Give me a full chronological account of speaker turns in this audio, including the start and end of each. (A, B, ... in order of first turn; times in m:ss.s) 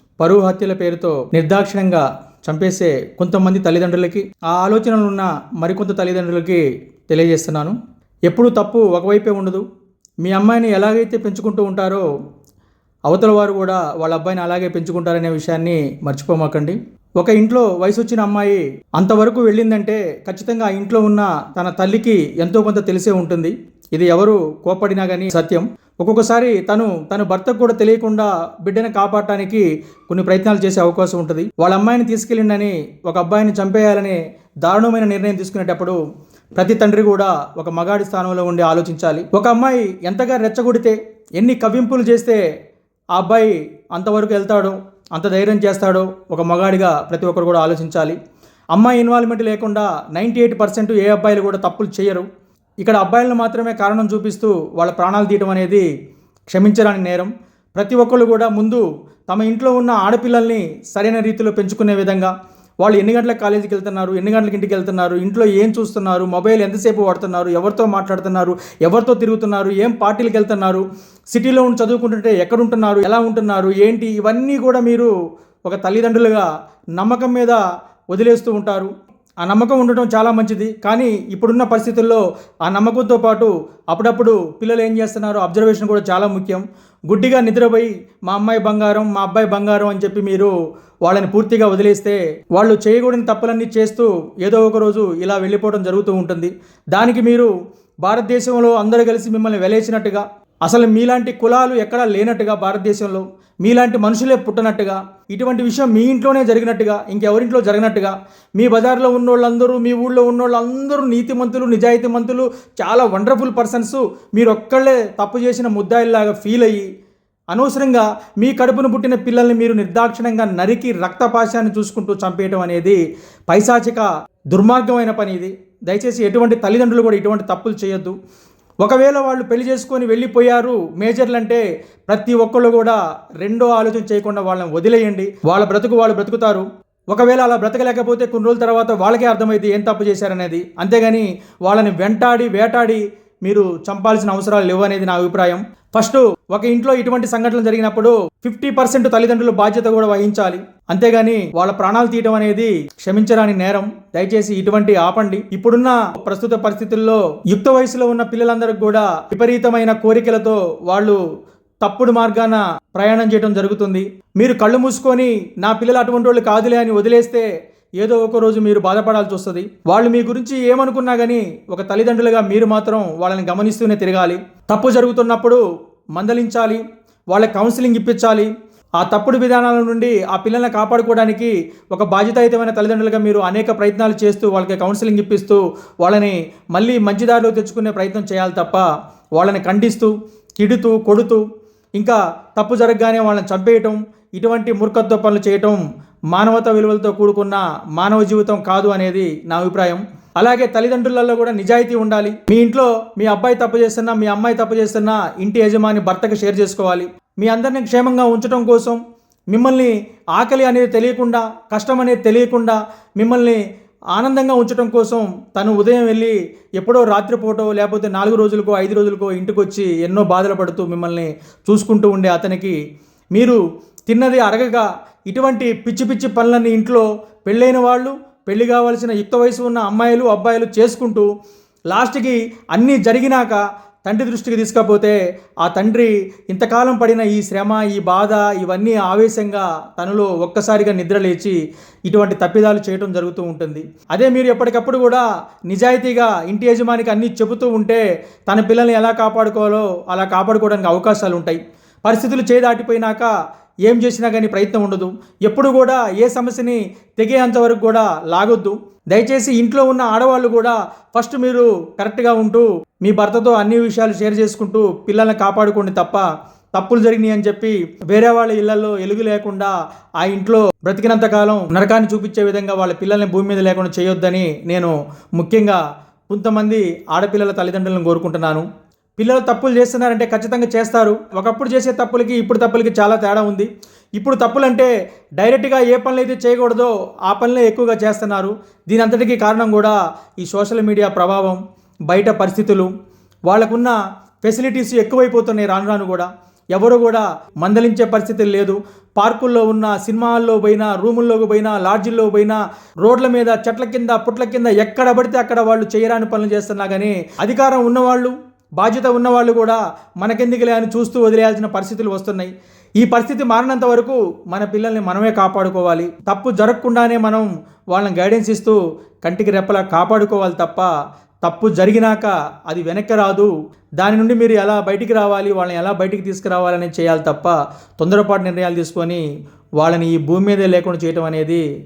0:00.2-0:07.8 A
0:08.3-0:09.6 A
0:10.2-0:12.0 A
0:13.1-0:36.0 A
0:36.6-0:42.4 A
0:43.2-0:48.2 A
0:48.8-0:52.3 A
0:52.8-0:55.9 A
0:56.5-1:15.1 A
1:15.7-1:17.6 A
1:18.1-1:30.5 A
1:31.0-1:37.5 A
1:38.0-1:56.9 A
1:57.5-2:08.2 A
2:08.8-2:41.2 A
2:41.8-2:47.5 A
2:48.0-2:55.6 A
2:56.1-2:56.8 A
2:57.3-3:11.4 A
3:12.0-3:15.8 A
3:16.3-3:33.6 A
3:34.1-3:42.8 A
3:43.3-3:51.3 A
3:51.9-4:13.3 A
4:13.9-4:38.7 A
4:39.2-4:52.9 A
4:53.5-5:20.9 A
5:21.4-5:29.2 A
5:29.8-5:31.6 A